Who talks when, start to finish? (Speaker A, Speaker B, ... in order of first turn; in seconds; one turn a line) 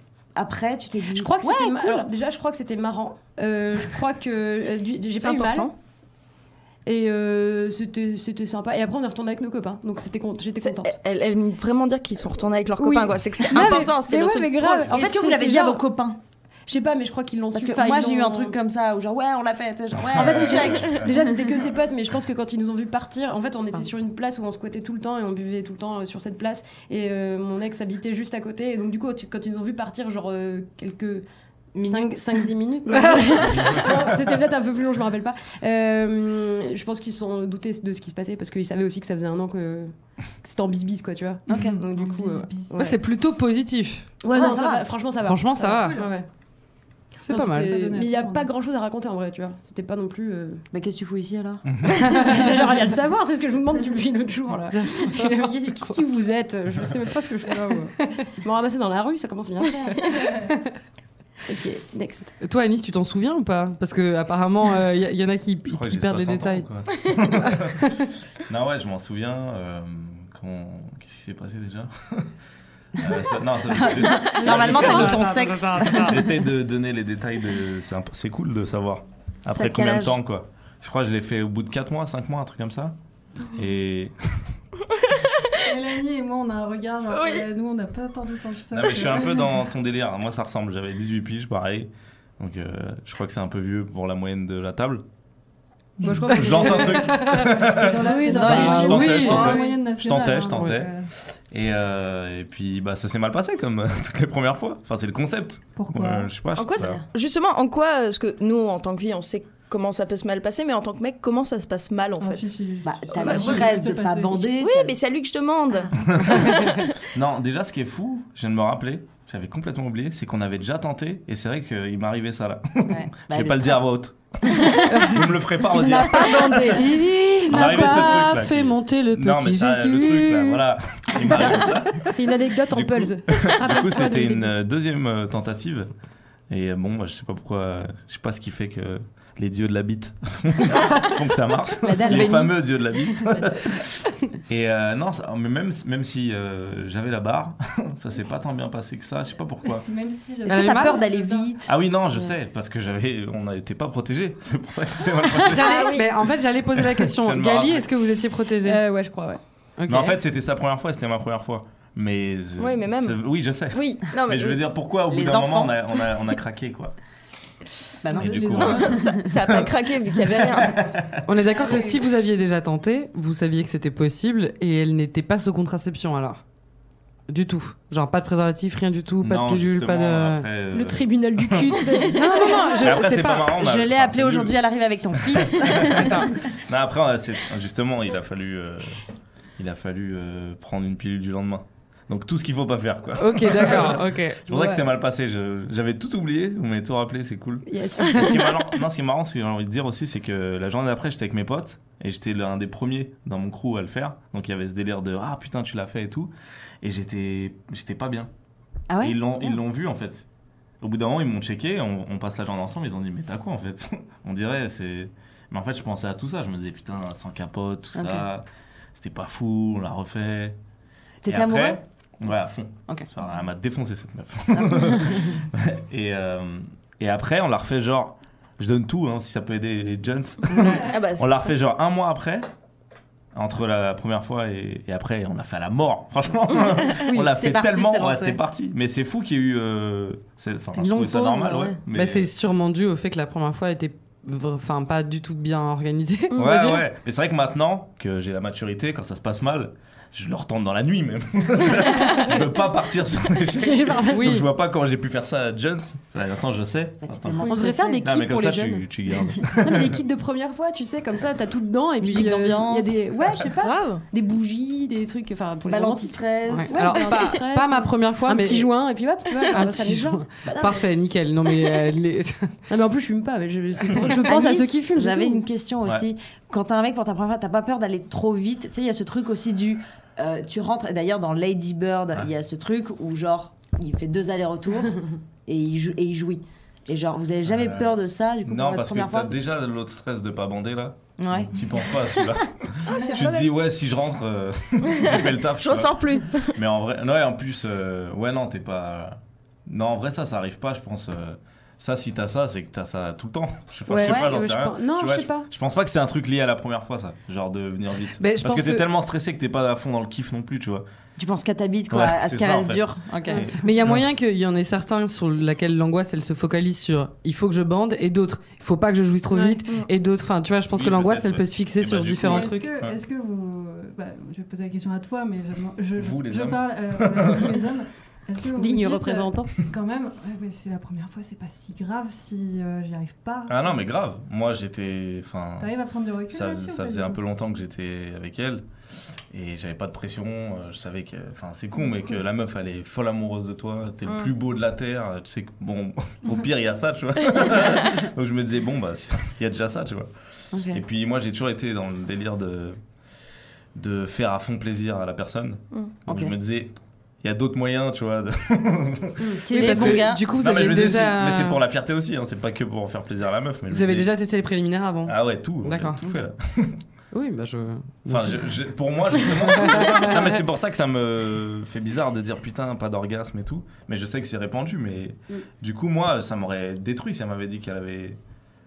Speaker A: 0.3-2.1
Speaker B: 1.1-5.7
Speaker C: 5.2-5.7
Speaker B: 6.8-11.0
Speaker C: 10.6-14.9
Speaker B: 12.8-15.8
Speaker A: 14.9-16.2
Speaker B: 16.7-18.6
Speaker A: 17.5-21.0
Speaker D: 20.1-21.1
Speaker B: 20.4-31.2
Speaker C: 20.7-21.0
Speaker A: 31.8-32.5
Speaker B: 31.8-43.0
Speaker D: 33.4-34.2
Speaker A: 41.5-41.8
Speaker E: 41.5-42.7
Speaker F: 42.7-44.1
Speaker B: 44.2-46.3
Speaker A: 44.3-44.8
Speaker F: 45.2-46.0
Speaker E: 45.7-46.1
Speaker F: 47.2-47.7
Speaker B: 47.3-50.6
Speaker E: 47.3-48.5
Speaker A: 50.7-52.4
Speaker B: 51.9-60.5
Speaker F: 54.8-55.9
Speaker B: 61.5-62.3
Speaker F: 62.4-66.7
Speaker D: 65.7-72.3
Speaker F: 67.5-67.9
Speaker D: 73.0-75.3
Speaker A: 73.7-76.4
Speaker F: 74.4-76.2
Speaker D: 76.0-83.0
Speaker A: 79.5-80.2
Speaker D: 83.5-84.5
Speaker C: 84.9-85.6
Speaker E: 85.6-89.5
Speaker C: 87.1-87.4
Speaker D: 88.7-95.0
Speaker E: 96.0-96.6
Speaker B: 96.0-97.3
Speaker D: 96.0-100.9
Speaker F: 96.4-97.6
Speaker E: 97.3-101.1
Speaker B: 98.1-98.4
Speaker A: 98.1-99.6
Speaker F: 98.3-99.6
Speaker F: 100.5-100.8
Speaker D: 101.5-107.0
Speaker E: 105.8-106.3
Speaker C: 106.6-112.5
Speaker E: 112.2-114.5
Speaker A: 112.8-114.9
Speaker C: 113.1-113.8
Speaker C: 114.5-117.0
Speaker D: 116.0-116.6
Speaker D: 117.1-135.9
Speaker A: 122.9-123.8
Speaker A: 124.5-125.2
Speaker F: 125.7-130.7
Speaker A: 126.2-126.8
Speaker B: 126.3-126.9
Speaker B: 131.3-134.5
Speaker D: 136.5-143.9
Speaker A: 141.8-143.4
Speaker D: 144.4-149.9
Speaker E: 149.8-151.5
Speaker A: 150.5-152.3
Speaker F: 150.5-151.1
Speaker D: 151.7-155.9
Speaker F: 155.4-158.8
Speaker C: 155.5-156.1
Speaker D: 156.7-157.9
Speaker B: 158.6-159.4
Speaker F: 159.8-160.2
Speaker D: 159.9-166.9
Speaker C: 162.6-163.2
Speaker C: 163.7-164.6
Speaker A: 165.1-165.8
Speaker A: 168.0-169.3
Speaker E: 168.1-169.0
Speaker D: 168.1-169.7
Speaker C: 168.5-170.8
Speaker D: 170.3-171.2
Speaker F: 171.2-176.4
Speaker F: 177.3-180.5
Speaker D: 179.2-181.9
Speaker B: 180.7-183.0
Speaker F: 182.0-183.5
Speaker A: 182.8-186.5
Speaker D: 182.8-184.6
Speaker D: 185.1-189.0
Speaker F: 185.9-186.3
Speaker D: 189.6-208.3
Speaker F: 193.2-194.4
Speaker A: 194.5-194.8
Speaker B: 197.7-198.6
Speaker A: 208.9-209.6
Speaker D: 209.0-210.3
Speaker D: 210.8-220.6
Speaker A: 218.0-218.3
Speaker A: 221.2-221.8
Speaker D: 221.3-232.5
Speaker A: 224.5-225.4
Speaker C: 230.6-231.5
Speaker D: 233.3-242.3
Speaker A: 237.0-238.4
Speaker A: 240.8-241.8
Speaker F: 241.9-246.8
Speaker C: 246.3-246.8
Speaker D: 246.3-260.0
Speaker B: 253.5-254.4
Speaker F: 254.1-254.5
Speaker A: 257.0-258.2
Speaker B: 257.4-270.9
Speaker A: 262.0-263.1
Speaker C: 263.6-264.0
Speaker A: 265.7-267.1
Speaker F: 266.5-268.7
Speaker F: 269.5-272.6
Speaker B: 272.7-275.4
Speaker A: 274.2-289.4
Speaker D: 287.4-310.9
Speaker A: 291.2-291.6
Speaker C: 292.9-293.5
Speaker C: 295.0-296.6
Speaker B: 303.9-305.5
Speaker A: 304.0-304.3
Speaker F: 308.2-308.9
Speaker A: 311.2-313.5
Speaker D: 311.9-314.0
Speaker F: 313.4-322.7
Speaker B: 319.3-319.6
Speaker D: 320.7-323.0
Speaker E: 322.2-333.7
Speaker D: 326.0-327.7
Speaker B: 328.6-329.5
Speaker D: 333.5-335.7
Speaker E: 335.6-337.2
Speaker D: 336.3-338.7
Speaker D: 339.3-352.8
Speaker A: 350.5-350.8
Speaker D: 353.8-364.1
Speaker A: 356.1-356.3
Speaker A: 359.3-360.2
Speaker F: 359.5-361.6
Speaker F: 363.7-366.0
Speaker D: 365.1-366.8
Speaker F: 367.1-368.6
Speaker D: 368.1-378.2
Speaker F: 369.5-370.3